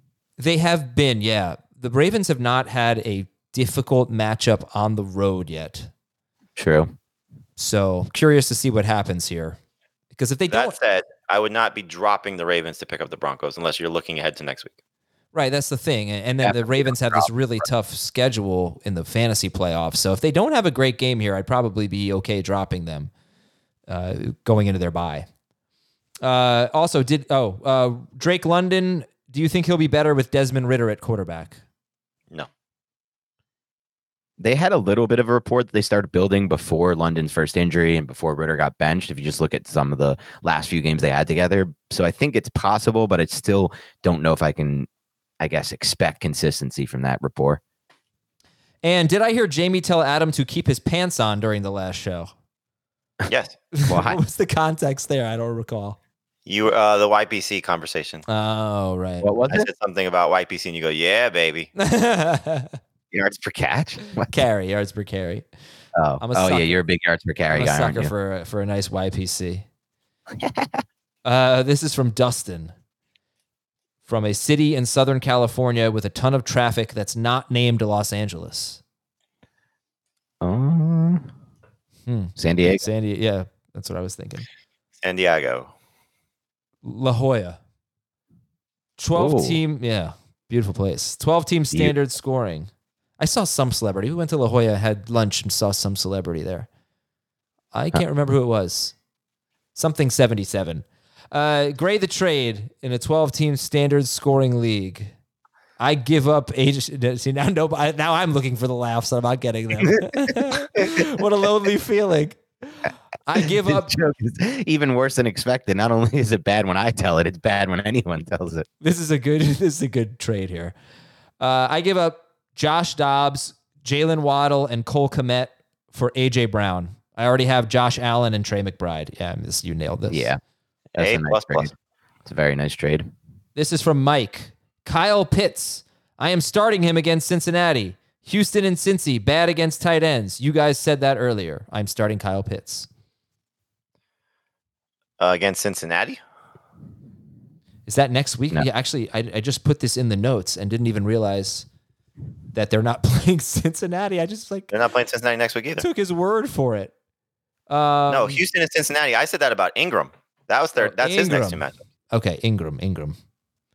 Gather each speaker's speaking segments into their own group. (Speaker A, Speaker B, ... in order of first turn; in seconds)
Speaker A: 0.4-5.9, 7.6-9.6, 10.2-10.8, 15.3-23.1, 23.9-25.3, 26.2-31.6, 48.8-52.3, 53.7-56.0, 58.3-59.3, 61.8-62.8, 64.3-65.5, 66.2-66.7, 67.5-69.7, 71.2-72.7, 74.1-78.8, 82.0-84.5, 86.8-87.6, 89.0-96.7, 97.7-98.9, 99.7-105.1, 105.8-113.9, 118.8-120.7, 121.4-130.3, 133.6-142.9, 147.9-151.7, 152.5-154.7, 155.8-156.9, 157.7-158.4, 160.8-163.2
Speaker B: 6.5-6.9, 34.4-44.9, 45.4-47.6, 53.9-54.2, 59.2-59.7, 63.1-64.3, 66.0-68.1, 70.4-70.8, 80.4-81.3, 82.4-82.9, 89.1-89.6, 109.8-110.9, 113.3-118.7, 130.1-130.4, 130.9-131.7, 132.2-133.1
Speaker C: 10.5-14.7, 53.3-53.5, 56.5-58.2, 59.5-61.7, 85.0-85.7, 131.0-131.7, 145.2-146.2, 154.7-155.8, 158.1-161.8